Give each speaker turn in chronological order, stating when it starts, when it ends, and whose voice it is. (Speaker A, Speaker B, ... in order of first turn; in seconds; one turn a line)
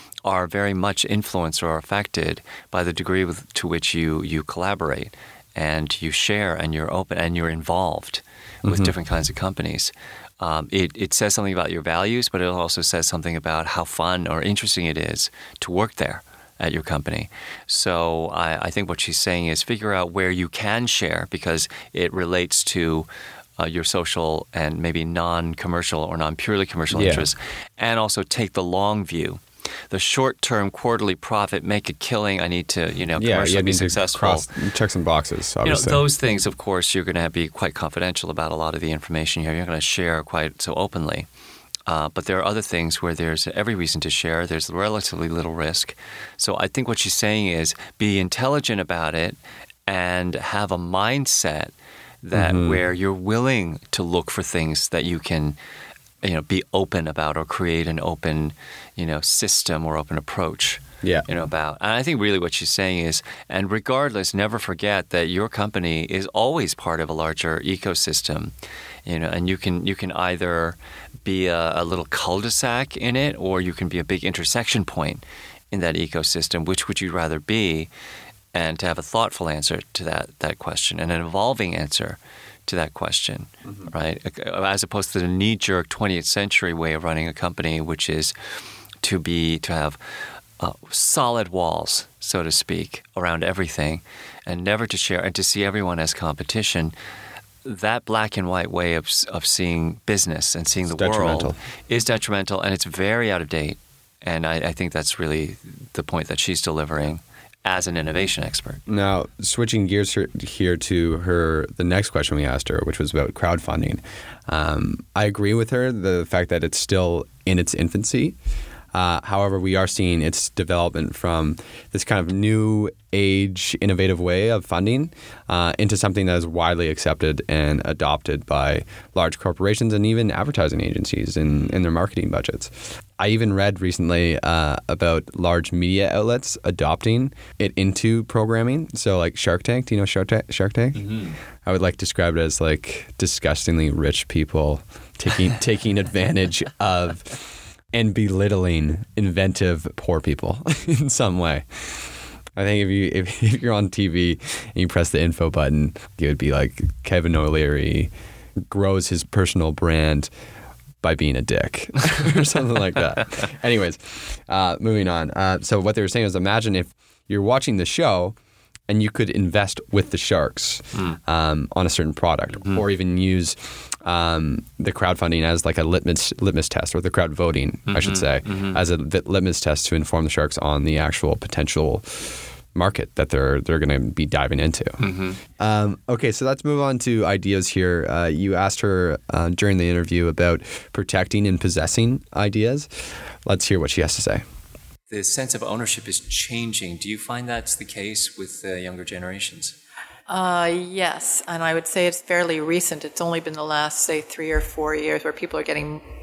Speaker A: 0.2-34.5
Speaker B: 8.6-8.9
Speaker B: 26.9-27.3
Speaker B: 33.1-36.0
Speaker A: 35.6-41.3
Speaker A: 41.9-55.6
Speaker B: 52.3-52.8
Speaker A: 56.2-68.5
Speaker A: 69.0-77.9
Speaker A: 78.5-88.3
Speaker A: 89.0-90.0
Speaker A: 90.6-96.9
Speaker A: 97.6-108.8
Speaker B: 100.9-101.6
Speaker B: 108.9-118.3
Speaker B: 118.9-141.1
Speaker A: 140.9-141.3
Speaker B: 141.6-158.1
Speaker B: 158.6-160.3
Speaker B: 161.0-168.4
Speaker B: 168.9-185.0
Speaker A: 177.9-178.8
Speaker A: 185.0-185.4
Speaker B: 185.6-192.9
Speaker B: 193.4-194.4
Speaker A: 195.1-199.8
Speaker C: 200.3-206.0